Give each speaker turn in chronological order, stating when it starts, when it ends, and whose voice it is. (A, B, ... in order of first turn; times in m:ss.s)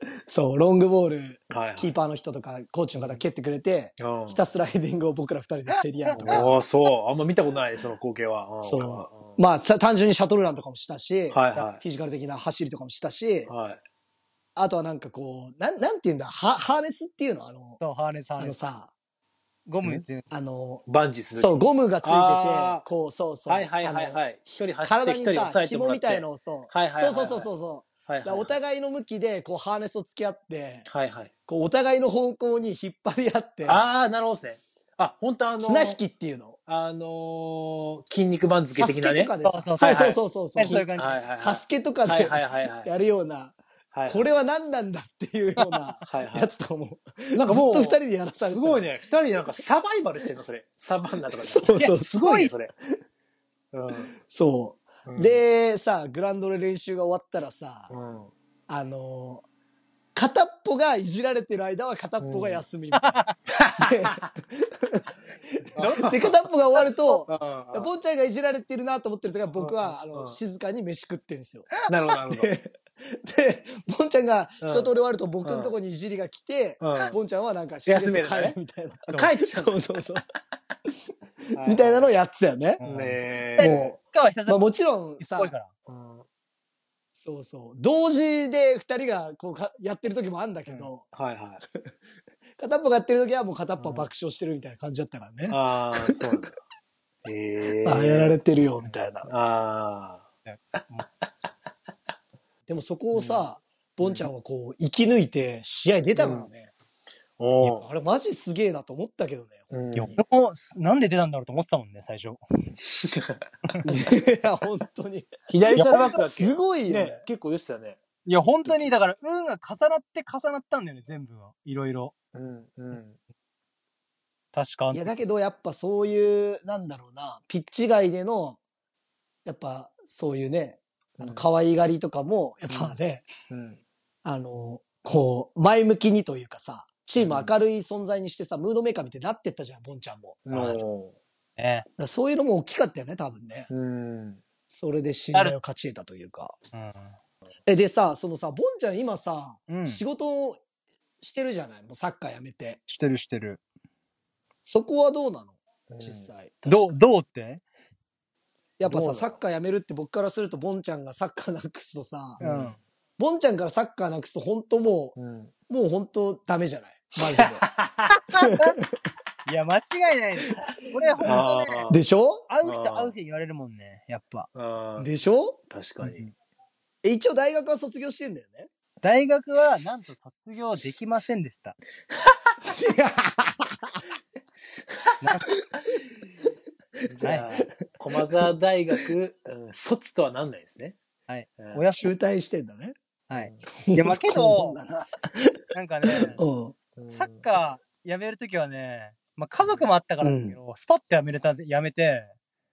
0:00.3-0:06.6 A
0:01.5-0:01.9 B
0:03.0-0:03.2 B
0:04.0-0:04.4 B
0:06.0-0:06.5 C
0:06.2-0:09.4 B
0:08.6-0:13.5 A
0:11.3-0:11.8 B
0:13.5-0:13.8 B
0:14.6-0:17.8 A
0:17.8-0:18.6 C
0:18.4-0:18.9 A
0:19.7-0:20.3 C
0:20.3-0:20.8 A
0:20.9-0:22.8 B
0:21.4-0:30.9 A
0:23.5-0:27.5 B
0:28.1-0:28.6 B
0:30.9-0:31.3 B
0:31.5-0:33.8 A
0:33.6-0:36.0 B
0:35.6-0:36.6 A
0:36.7-0:42.9 B
0:38.8-0:48.9 A
0:39.4-0:40.0 C
0:40.6-0:41.2 C
0:43.9-0:44.3 B
0:46.1-0:46.5 B
0:47.4-0:52.7 B
0:51.4-0:52.4 A
0:51.8-0:52.5 C
0:53.7-0:54.1 B
0:54.1-0:57.9 A
0:55.0-0:55.4 B
0:57.9-0:58.3 B
0:58.7-0:59.4 A
1:00.2-1:03.2 A
1:02.2-1:02.6 B
1:02.9-1:03.4 C
1:03.5-1:04.2 B
1:03.8-1:05.1 A
1:05.8-1:06.4 B
1:05.8-1:06.2 C
1:06.0-1:11.7 A
1:07.2-1:07.9 B
1:09.6-1:10.4 B
1:11.9-1:12.5 B
1:12.3-1:20.2 A
1:14.6-1:14.9 B
1:15.4-1:15.8 B
1:16.8-1:17.2 B
1:17.9-1:18.6 B
1:19.1-1:19.9 B
1:21.5-1:22.8 A
1:21.6-1:22.1 B
1:22.8-1:24.6 C
1:22.8-1:23.8 B
1:23.6-1:25.5 A
1:25.2-1:25.7 C
1:25.9-1:26.3 B
1:27.2-1:31.0 A
1:30.7-1:31.6 B
1:32.6-1:36.4 A
1:33.8-1:34.1 B
1:35.5-1:36.6 B
1:37.2-1:38.4 B
1:37.8-1:39.3 A
1:39.2-1:40.3 B
1:40.5-1:41.0 C
1:42.7-1:46.7 A
1:43.1-1:43.4 B
1:44.0-1:44.3 B
1:46.2-1:46.5 B
1:47.4-1:47.8 B
1:47.6-1:50.2 A
1:49.7-1:50.2 B
1:50.0-1:52.4 C
1:53.0-1:53.4 B
1:53.9-1:57.2 A
1:55.5-1:58.0 B
1:58.3-2:02.1 C
1:58.6-1:58.9 B
2:02.3-2:03.2 B
2:04.5-2:05.1 C
2:04.9-2:08.6 A
2:09.4-2:13.3 A
2:11.2-2:11.4 B
2:13.5-2:13.8 B
2:14.2-2:20.8 A
2:17.2-2:17.5 B
2:20.5-2:21.2 B
2:21.6-2:21.9 C
2:22.0-2:23.7 A
2:23.7-2:24.4 B
2:24.7-2:26.6 A
2:26.7-2:27.1 C
2:27.7-2:30.6 A
2:29.7-2:30.0 C
2:31.2-2:32.8 A
2:32.9-2:33.6 C
2:34.6-2:36.6 A
2:35.9-2:36.8 B
2:36.6-2:37.6 C
2:38.8-2:42.4 A
2:38.9-2:39.4 B
2:42.4-2:42.8 B
2:42.4-2:42.8 C
2:43.2-2:45.2 A
2:45.2-2:45.5 B
2:45.7-2:47.7 A
2:47.2-2:48.1 B
2:48.1-2:48.8 C
2:49.5-2:51.8 C
2:51.2-2:52.5 A
2:51.2-2:52.0 B
2:52.5-2:54.5 C
2:52.6-2:53.1 B
2:54.5-2:55.1 B
2:55.0-2:55.6 A
2:55.7-2:56.3 B
2:57.0-2:58.7 A
2:59.0-3:01.8 C
3:02.6-3:04.0 A
3:07.1-3:11.0 B
3:07.1-3:07.7 A
3:08.2-3:09.0 A
3:11.3-3:12.1 C
3:11.6-3:11.8 B
3:11.9-3:13.0 A
3:13.3-3:14.8 C
3:13.4-3:13.6 B
3:13.8-3:15.6 A
3:15.7-3:16.4 C
3:16.1-3:16.8 A
3:17.0-3:17.4 B
3:17.1-3:22.3 C
3:20.2-3:20.6 A